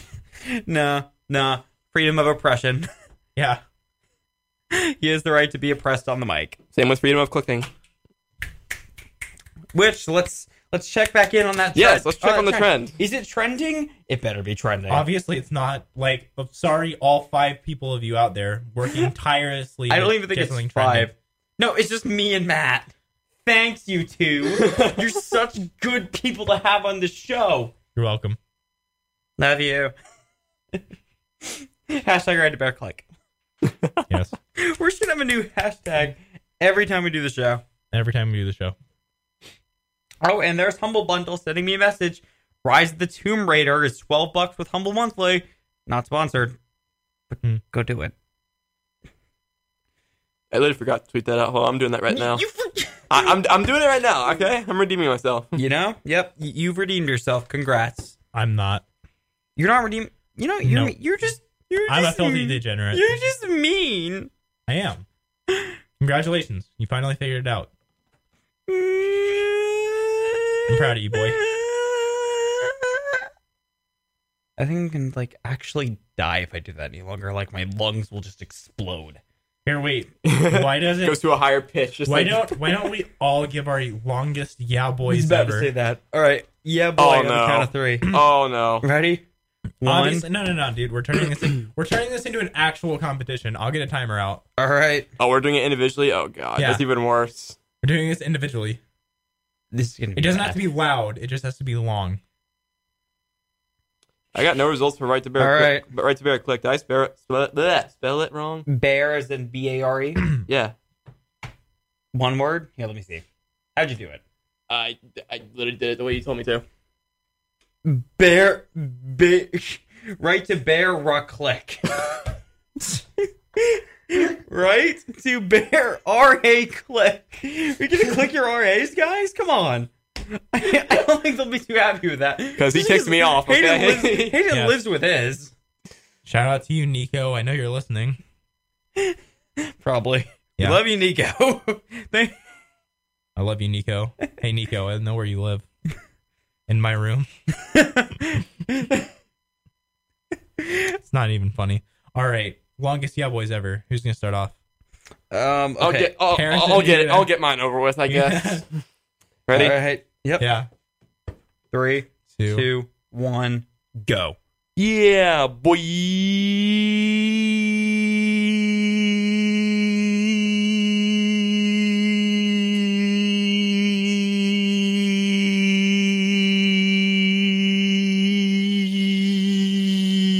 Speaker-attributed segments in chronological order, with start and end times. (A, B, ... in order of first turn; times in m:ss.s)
0:00.5-0:02.9 A
0:03.4-0:03.6 B
0:04.7-0:06.6 A
0:06.7-0:07.7 C
0:09.7-0:15.1 A
0:11.7-0:13.0 C
0:14.9-0:21.1 B
0:19.9-0:22.9 A
0:23.4-0:27.7 A
0:24.6-0:24.9 C
0:27.9-0:28.4 B
0:29.4-0:29.9 A
0:31.4-0:33.0 A
0:34.1-0:34.3 B
0:34.6-0:37.6 A
0:37.9-0:38.7 B
0:40.2-0:46.6 A
0:47.3-0:48.1 A
0:50.5-0:52.4 C
0:52.1-0:53.3 A
0:53.1-0:55.6 C
0:55.5-0:58.1 A
0:58.3-0:58.8 B
0:59.6-1:04.3 A
1:00.6-1:01.0 B
1:01.9-1:03.2 B
1:04.7-1:05.0 B
1:06.0-1:07.7 B
1:08.7-1:13.2 A
1:10.7-1:11.4 B
1:14.6-1:19.2 A
1:19.6-1:21.2 B
1:20.2-1:22.8 C
1:22.0-1:25.7 B
1:25.1-1:28.1 A
1:27.0-1:28.8 C
1:28.8-1:29.2 A
1:29.8-1:30.2 A
1:29.8-1:34.4 B
1:34.6-1:35.1 A
1:35.2-1:37.6 C
1:36.6-1:36.8 B
1:37.8-1:38.8 B
1:39.7-1:40.7 A
1:40.2-1:42.2 B
1:44.3-1:48.6 C
1:45.4-1:45.8 A
1:48.7-1:50.3 A
1:50.4-1:50.7 C
1:52.1-1:53.2 A
1:53.8-1:54.2 A
1:54.7-1:56.6 C
1:57.8-2:01.9 A
2:03.6-2:15.5 A
2:12.6-2:14.4 C
2:14.5-2:14.8 B
2:16.2-2:18.2 B
2:19.8-2:22.3 A
2:23.4-2:25.6 B
2:26.7-2:27.3 B
2:27.6-2:29.0 A
2:31.1-2:34.5 B
2:35.3-2:36.1 A
2:35.8-2:38.6 C
2:36.3-2:37.3 B
2:38.1-2:38.7 B
2:39.5-2:39.8 C
2:39.5-2:40.5 A
2:40.4-2:40.7 B
2:41.7-2:44.4 A
2:42.3-2:42.6 B
2:44.8-2:47.4 C